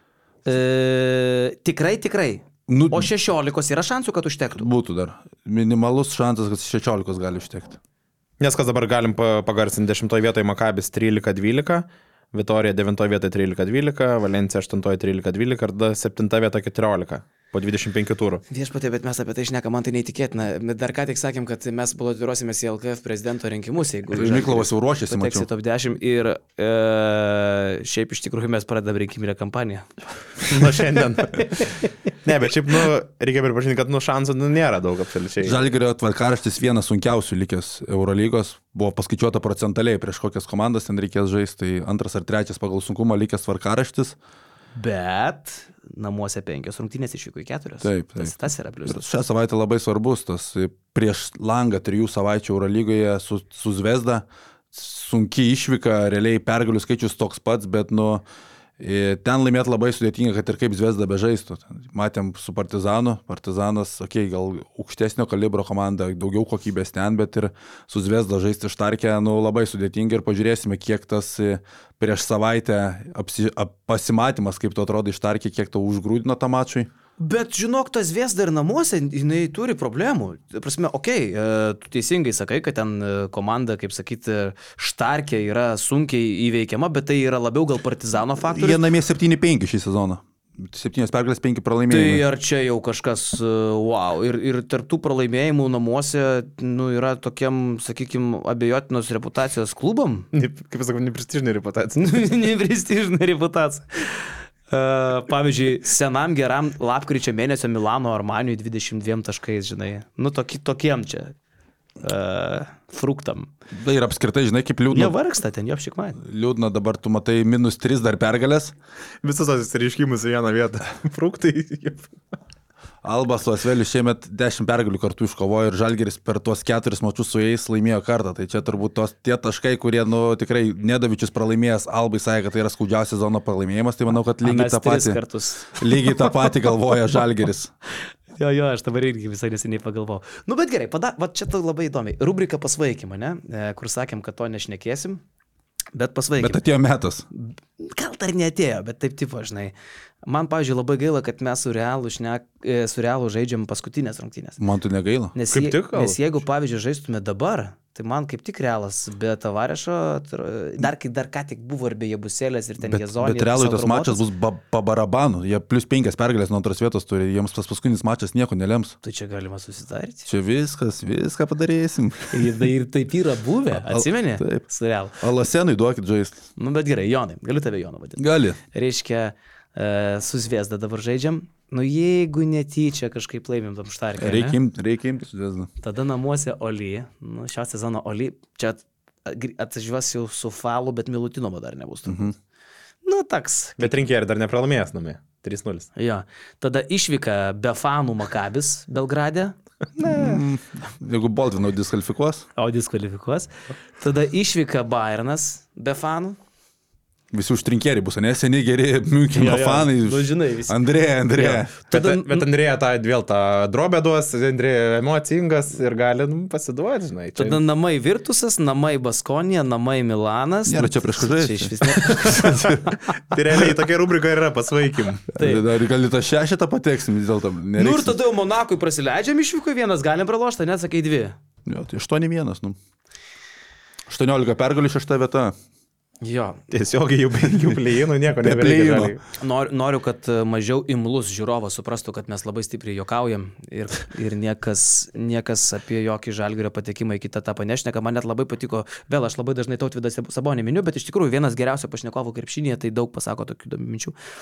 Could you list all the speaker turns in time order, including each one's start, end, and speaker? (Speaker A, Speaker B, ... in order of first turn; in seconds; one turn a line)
Speaker A: 0.5-4.7
Speaker B: 2.7-3.1
Speaker B: 4.5-7.8
Speaker C: 8.4-18.4
Speaker A: 18.5-29.9
Speaker B: 24.1-25.5
Speaker C: 30.4-35.6
Speaker A: 31.4-31.6
Speaker B: 35.4-44.2
Speaker A: 44.8-49.0
Speaker B: 47.8-48.3
Speaker B: 48.9-58.2
Speaker B: 58.8-76.9
Speaker A: 77.2-88.8
Speaker B: 88.5-92.2
Speaker A: 91.9-100.3
Speaker C: 100.3-102.1
Speaker A: 102.0-111.3
Speaker A: 112.0-113.5
Speaker B: 113.7-115.2
Speaker A: 114.9-116.2
Speaker B: 116.2-118.7
Speaker C: 119.2-122.1
Speaker B: 123.0-135.2
Speaker A: 134.4-136.5
Speaker B: 135.8-137.7
Speaker A: 138.4-145.2
Speaker A: 145.9-146.6
Speaker B: 146.4-147.3
Speaker A: 147.3-149.7
Speaker A: 150.3-154.6
Speaker B: 154.6-155.3
Speaker A: 155.3-164.2
Speaker C: 155.5-156.2
Speaker B: 162.8-168.9
Speaker A: 169.0-170.2
Speaker B: 170.3-172.5
Speaker A: 172.3-175.2
Speaker B: 173.7-174.6
Speaker B: 175.2-176.4
Speaker A: 176.6-178.2
Speaker B: 178.2-178.6
Speaker A: 178.7-184.6
Speaker B: 184.2-185.7
Speaker A: 185.8-192.3
Speaker B: 192.1-192.3
Speaker A: 193.1-194.0
Speaker C: 193.8-195.9
Speaker A: 196.0-200.4
Speaker B: 200.0-202.5
Speaker A: 202.6-206.4
Speaker B: 207.3-211.7
Speaker A: 209.3-210.8
Speaker A: 211.3-212.5
Speaker C: 211.9-217.6
Speaker A: 217.4-222.9
Speaker B: 220.7-222.8
Speaker C: 222.1-225.3
Speaker B: 225.3-228.2
Speaker A: 225.4-225.7
Speaker A: 227.8-231.4
Speaker B: 231.7-232.8
Speaker B: 234.1-235.6
Speaker A: 236.2-236.6
Speaker C: 236.7-239.2
Speaker B: 238.4-239.2
Speaker A: 239.4-254.1